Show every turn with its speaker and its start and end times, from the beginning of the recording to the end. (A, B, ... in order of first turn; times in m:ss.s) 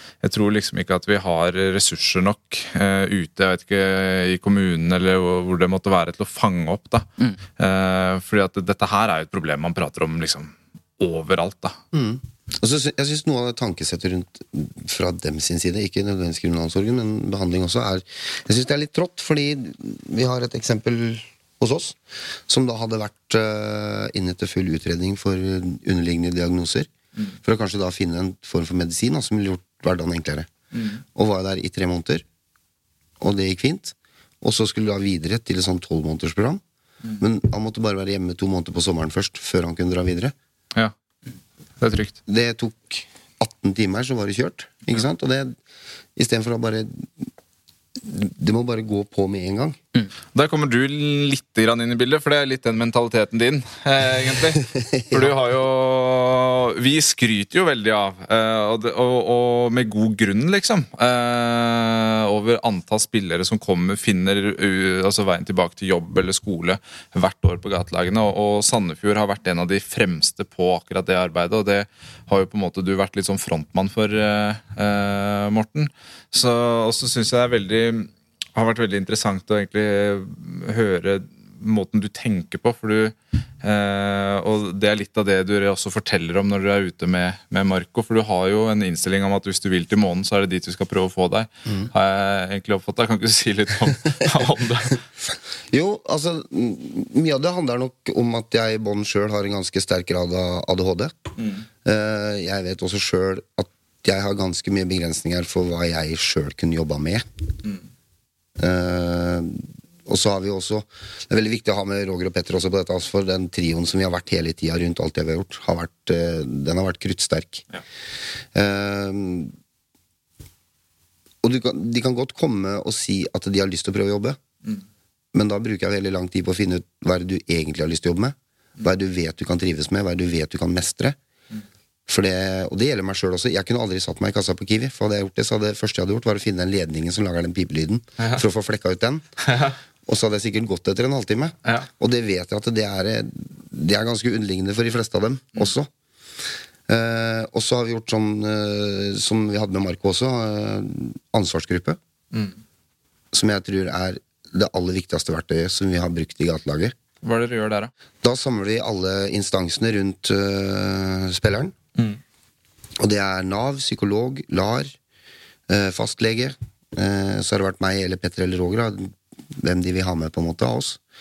0:00.2-0:11.8 A
0:11.9-0:26.9 B
0:27.4-0:30.5 B
0:30.7-0:31.0 A
0:31.1-0:32.2 B
0:33.2-0:36.6 B
0:37.2-0:40.3 B
0:41.8-0:42.2 A
0:42.3-0:45.6 B
0:46.2-0:47.3 B
0:48.0-0:49.8 B
0:50.3-1:35.0 A
0:54.8-0:55.2 B
1:35.7-1:41.2 B
1:41.4-1:41.6 A
1:41.8-1:47.2 B
1:48.6-1:57.6 B
1:58.5-1:59.5 B
2:01.4-2:04.4 B
2:05.3-2:11.2 B
2:12.1-2:19.2 B
2:19.4-2:19.8 A
2:20.1-2:25.9 B
2:26.9-2:32.0 B
2:33.3-2:37.0 B
2:37.2-2:37.9 A
2:38.2-2:41.8 B
2:43.0-2:45.0 B
2:45.7-2:51.0 B